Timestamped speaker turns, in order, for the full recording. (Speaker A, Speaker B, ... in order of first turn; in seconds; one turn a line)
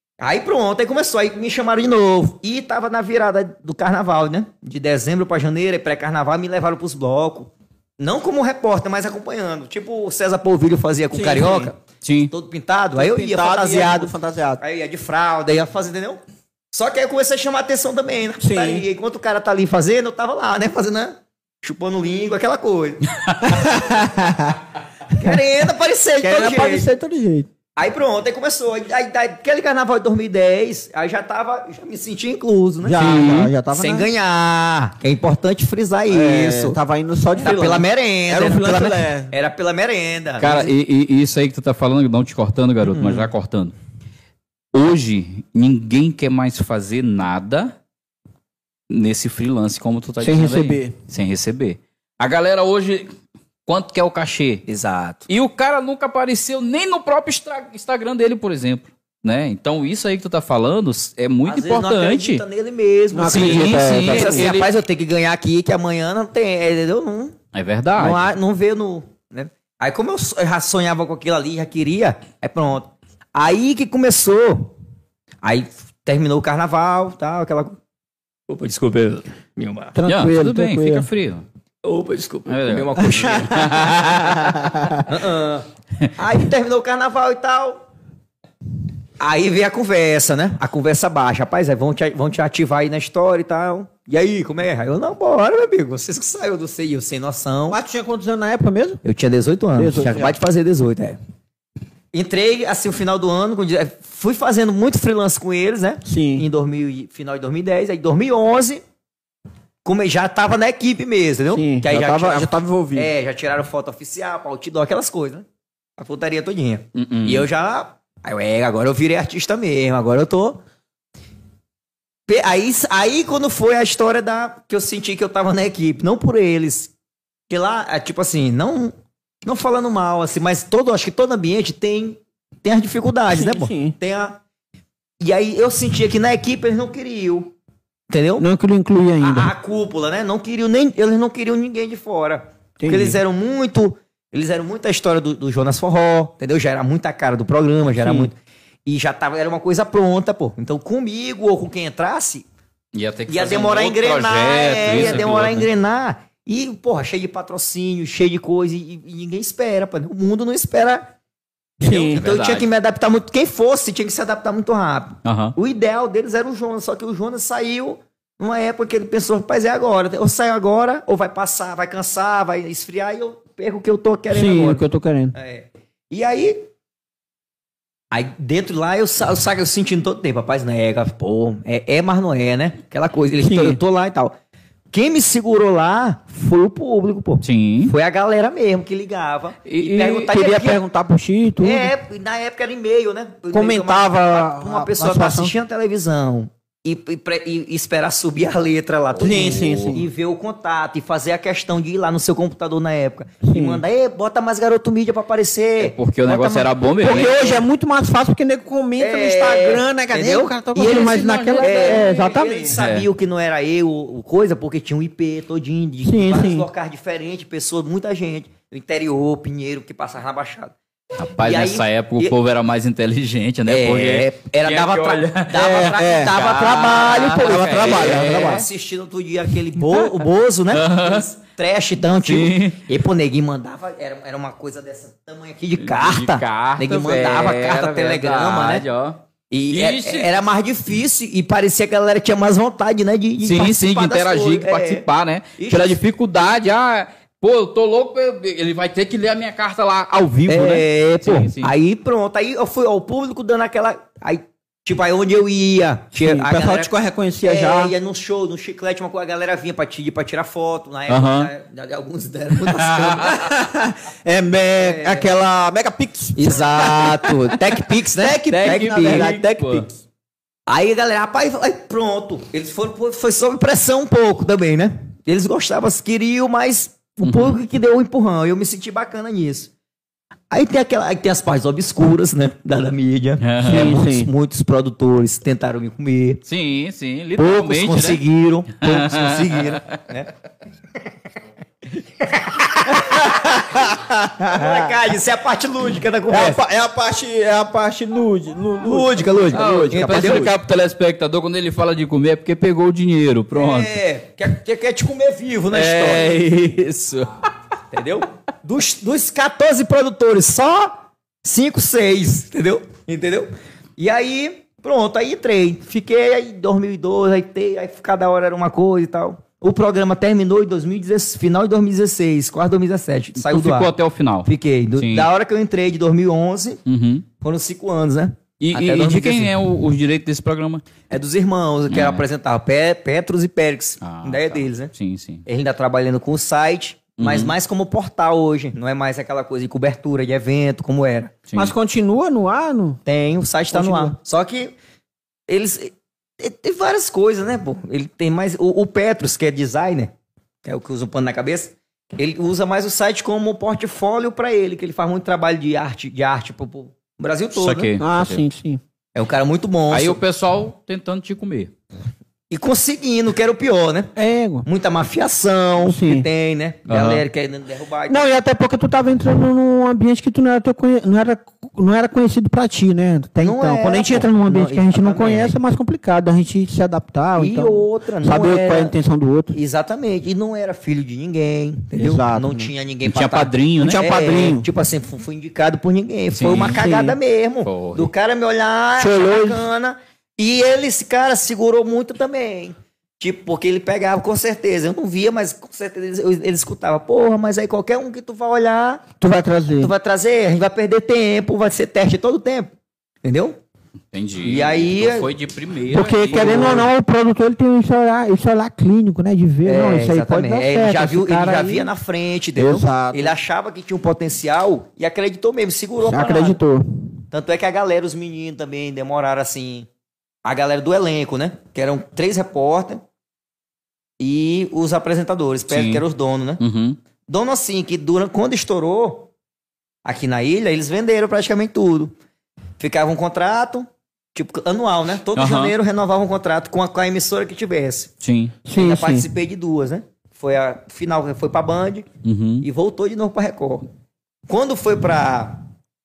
Speaker A: 0.2-11.8
Speaker B: 11.1-11.7
Speaker C: 12.0-12.3
Speaker A: 12.3-16.2
Speaker B: 13.0-14.6
Speaker A: 16.7-23.5
Speaker B: 18.4-18.8
Speaker B: 23.6-24.5
Speaker A: 25.1-26.9
Speaker B: 26.2-27.5
Speaker A: 27.8-36.8
Speaker B: 32.8-34.1
Speaker C: 33.0-33.5
Speaker B: 36.1-39.3
Speaker A: 37.4-40.7
Speaker C: 40.4-43.7
Speaker A: 42.9-43.3
Speaker C: 44.7-47.7
Speaker C: 48.9-53.1
Speaker B: 50.2-50.9
Speaker C: 53.6-54.6
Speaker A: 54.7-55.3
Speaker C: 55.3-62.4
Speaker A: 61.5-67.3
Speaker B: 63.1-64.5
Speaker C: 63.3-64.7
Speaker C: 67.5-68.3
Speaker A: 68.0-74.7
Speaker A: 75.4-77.8
Speaker A: 78.5-79.9
Speaker B: 79.9-81.1
Speaker C: 80.1-81.4
Speaker A: 81.8-84.2
Speaker C: 82.5-84.2
Speaker B: 83.5-85.0
Speaker A: 85.0-85.7
Speaker A: 86.2-87.8
Speaker A: 89.2-97.8
Speaker B: 97.7-99.0
Speaker A: 99.0-101.2
Speaker B: 99.7-100.3
Speaker A: 102.1-108.8
Speaker B: 106.0-106.5
Speaker A: 109.8-115.4
Speaker B: 111.5-113.1
Speaker A: 116.0-120.6
Speaker C: 116.9-117.4
Speaker A: 122.3-126.9
Speaker A: 127.5-128.9
Speaker A: 129.4-134.4
Speaker B: 133.3-133.9
Speaker A: 135.2-137.5
Speaker A: 138.1-138.4
Speaker B: 138.4-139.5
Speaker A: 139.2-148.3
Speaker B: 142.8-143.2
Speaker B: 148.0-148.3
Speaker A: 148.8-152.4
Speaker C: 152.9-155.7
Speaker A: 153.3-161.1
Speaker B: 161.8-162.2
Speaker A: 161.9-174.8
Speaker C: 162.1-162.7
Speaker C: 165.2-165.5
Speaker B: 174.3-175.3
Speaker A: 175.3-176.7
Speaker A: 178.1-184.3
Speaker B: 183.4-183.8
Speaker A: 184.9-190.8
Speaker C: 187.4-187.9
Speaker C: 189.6-190.3
Speaker B: 190.3-191.9
Speaker A: 191.6-207.6
Speaker B: 193.5-195.5
Speaker B: 199.2-200.1
Speaker C: 199.2-200.0
Speaker B: 203.4-203.8
Speaker C: 205.8-207.3
Speaker B: 207.0-212.8
Speaker A: 209.0-220.7
Speaker C: 210.8-212.2
Speaker C: 212.7-213.1
Speaker B: 216.0-216.7
Speaker C: 221.2-228.7
Speaker A: 221.4-222.3
Speaker A: 223.7-238.8
Speaker B: 225.5-228.6
Speaker C: 230.7-231.3
Speaker C: 232.2-232.8
Speaker C: 235.8-239.2
Speaker A: 239.5-245.0
Speaker C: 239.7-240.3
Speaker C: 243.4-251.7
Speaker A: 245.6-246.0
Speaker A: 250.5-263.5
Speaker B: 256.2-257.9
Speaker C: 261.1-261.5
Speaker C: 262.7-263.3
Speaker B: 263.4-269.9
Speaker A: 264.8-265.3
Speaker A: 266.4-269.3
Speaker C: 268.4-269.9
Speaker A: 270.7-279.7
Speaker C: 277.2-277.6
Speaker A: 280.5-286.4
Speaker C: 283.4-283.9
Speaker B: 283.6-284.3
Speaker C: 286.4-288.2
Speaker A: 287.4-290.3
Speaker C: 288.8-290.0
Speaker A: 292.0-293.5
Speaker B: 293.1-294.9
Speaker A: 294.4-296.6
Speaker B: 296.3-300.5
Speaker A: 298.8-300.5
Speaker C: 299.5-303.9
Speaker A: 303.5-306.3
Speaker C: 305.7-307.4
Speaker A: 307.9-323.9
Speaker C: 323.4-325.3
Speaker A: 324.4-326.8
Speaker C: 326.9-327.2
Speaker A: 327.4-329.5
Speaker C: 328.6-330.8
Speaker A: 331.1-334.9
Speaker C: 331.9-332.2
Speaker C: 334.0-335.4
Speaker A: 335.4-341.4
Speaker C: 337.2-337.5
Speaker C: 341.5-341.7
Speaker B: 341.6-343.0
Speaker A: 343.1-344.7
Speaker B: 343.7-344.1
Speaker A: 345.5-350.1
Speaker A: 350.6-357.9
Speaker C: 357.5-358.4
Speaker B: 358.0-358.8
Speaker A: 359.1-360.2
Speaker C: 359.9-361.7
Speaker A: 362.5-364.1
Speaker B: 364.1-364.6
Speaker A: 364.6-368.3
Speaker B: 365.8-366.3
Speaker C: 366.9-367.2
Speaker B: 368.1-379.5
Speaker A: 373.4-375.6
Speaker A: 377.4-378.9
Speaker A: 379.5-399.1
Speaker B: 381.9-382.7
Speaker C: 383.0-384.1
Speaker B: 383.8-384.6
Speaker C: 386.4-386.8
Speaker B: 386.6-387.2
Speaker C: 387.6-388.1
Speaker B: 389.0-389.6
Speaker B: 399.2-399.9
Speaker A: 399.8-402.7
Speaker A: 403.2-403.6
Speaker C: 404.1-406.9
Speaker A: 404.4-405.3
Speaker B: 405.9-411.9
Speaker A: 406.3-406.9
Speaker A: 409.6-416.6
Speaker B: 412.6-413.3
Speaker B: 416.0-417.2
Speaker A: 417.3-419.9
Speaker A: 420.4-423.0
Speaker A: 424.2-426.6
Speaker C: 425.7-426.0
Speaker C: 426.6-427.0
Speaker A: 427.3-429.3
Speaker A: 430.0-432.1
Speaker A: 432.8-438.1
Speaker C: 435.4-435.7
Speaker C: 438.2-438.6
Speaker B: 438.6-439.3
Speaker A: 438.7-442.1
Speaker C: 442.2-442.6
Speaker A: 442.6-443.9
Speaker A: 444.5-445.6